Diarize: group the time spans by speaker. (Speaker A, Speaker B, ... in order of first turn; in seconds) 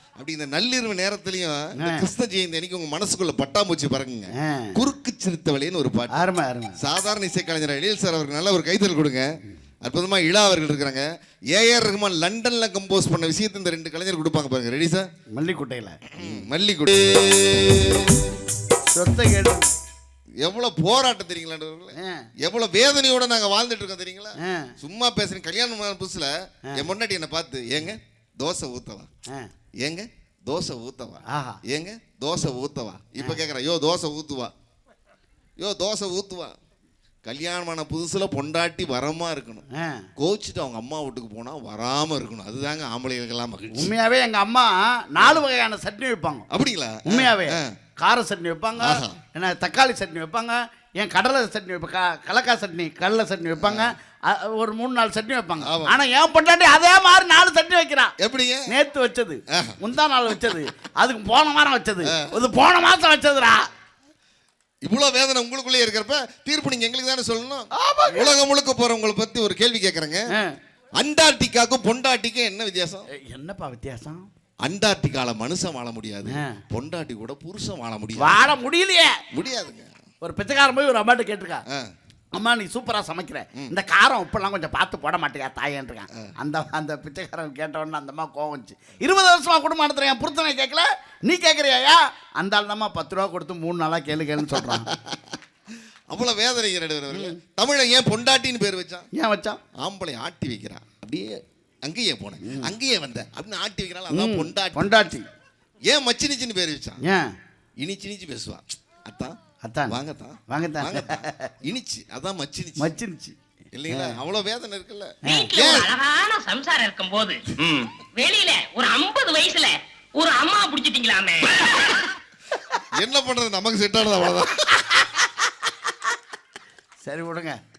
Speaker A: 0.2-6.2, 6.8-9.3, 9.8-15.1, 16.1-18.4, 20.4-29.1, 29.8-34.5, 35.6-36.5, 37.2-39.6, 40.2-43.9, 46.5-47.7, 48.8-49.2, 53.6-53.9, 55.6-56.0, 58.2-58.7, 59.5-59.8, 64.8-70.3, 71.0-73.1, 74.7-78.5, 79.3-79.9, 94.5-95.4, 96.1-99.1, 99.8-104.9, 105.9-107.0, 107.8-109.3, 109.9-112.9, 113.7-115.9, 123.0-125.0
Speaker B: 1.8-2.1, 4.4-4.8, 6.1-6.8, 15.3-16.2, 18.9-19.7, 22.0-22.3, 24.4-24.7, 31.3-31.6, 39.8-40.1, 43.7-46.5, 47.1-58.1, 58.7-63.6, 67.8-68.3, 73.2-74.3, 76.2-76.6, 78.2-79.2, 80.2-81.6, 82.3-94.9, 97.1-97.4, 99.1-99.6, 102.4-102.7, 104.1-105.2, 107.0-107.3, 109.6-110.0, 110.5-111.5, 112.8-113.3, 113.9-114.2, 115.2-115.5, 127.0-127.6
Speaker C: 115.2-122.2